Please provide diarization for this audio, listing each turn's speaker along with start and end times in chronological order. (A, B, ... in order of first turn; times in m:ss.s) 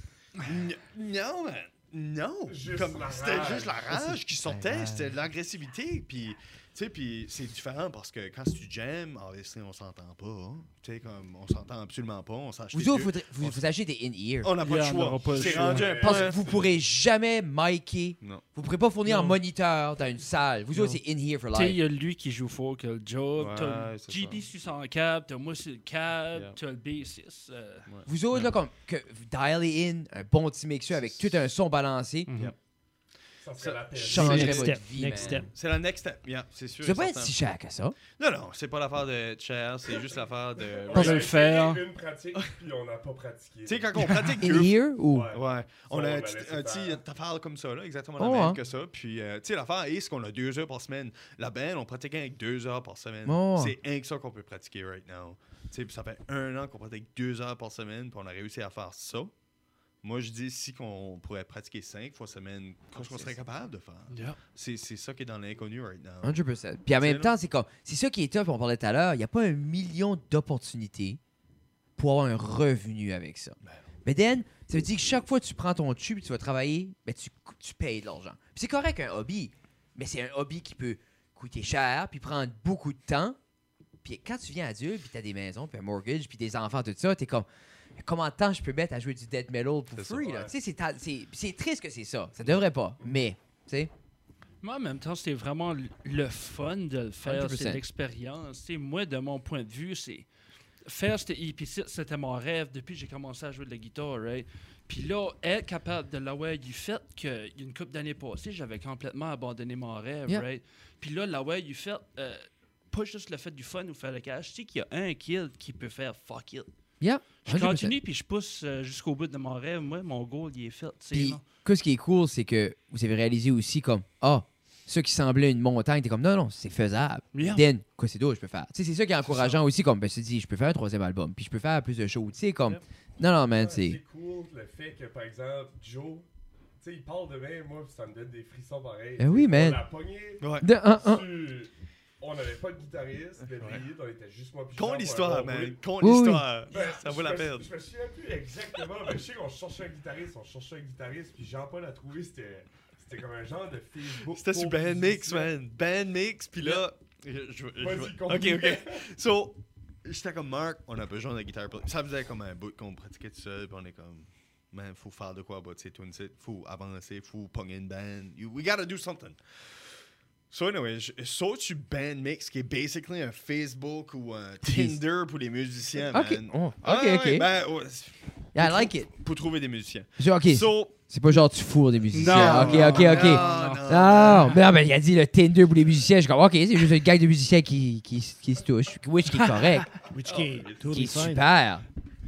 0:00.4-0:13.6 A
0:02.5-0:04.0 B
0:04.4-0:05.2 C
0:12.7-0:14.5 C
0:14.4-0:16.7 A
0:14.6-0:16.1 D
0:15.3-0:16.6 B
0:16.0-0:21.8 C
0:20.7-0:21.0 D
0:21.5-0:27.9 D
0:23.4-0:24.5 A
0:27.9-0:28.5 A
0:28.1-0:32.3 C
0:32.3-0:32.6 D
0:33.4-0:34.7 B
0:33.6-0:37.4 A
0:33.9-0:35.4 C
0:34.1-0:35.5 E
0:36.8-0:38.0 C
0:38.2-0:41.3 A
0:40.9-0:43.9 B
0:40.9-0:41.8 D
0:43.7-0:44.8 A
0:44.0-0:44.3 D
0:44.3-0:45.3 C
0:45.1-0:47.0 B
0:45.3-0:59.3 A
0:48.2-0:48.6 C
0:53.2-0:53.8 C
1:00.0-1:07.3 A
1:03.0-1:03.4 C
1:04.1-1:04.4 D
1:06.2-1:11.2 C
1:12.0-1:23.4 C
1:24.0-1:33.9 C
1:30.2-1:30.5 B
1:34.6-1:40.3 D
1:37.2-1:37.8 C
1:40.8-1:56.7 D
1:57.0-1:58.0 C
1:57.4-2:01.4 D
2:01.1-2:14.0 C
2:07.3-2:07.6 D
2:13.5-2:16.3 B
2:16.8-2:25.8 B
2:19.2-2:19.8 C
2:20.4-2:20.7 A
2:20.6-2:21.3 C
2:24.8-2:27.7 A
2:26.0-2:26.5 C
2:26.7-2:35.5 B
2:34.3-2:49.4 A
2:36.6-2:36.9 B
2:37.8-2:39.1 B
2:50.5-3:01.0 A
2:54.6-2:55.0 C
2:56.1-2:57.5 C
2:58.6-2:59.1 C
3:00.2-3:09.9 C
3:02.1-3:04.4 D
3:02.2-3:04.6 A
3:09.3-3:09.9 D
3:10.1-3:11.5 E
3:10.2-3:11.1 A
3:10.9-3:11.8 C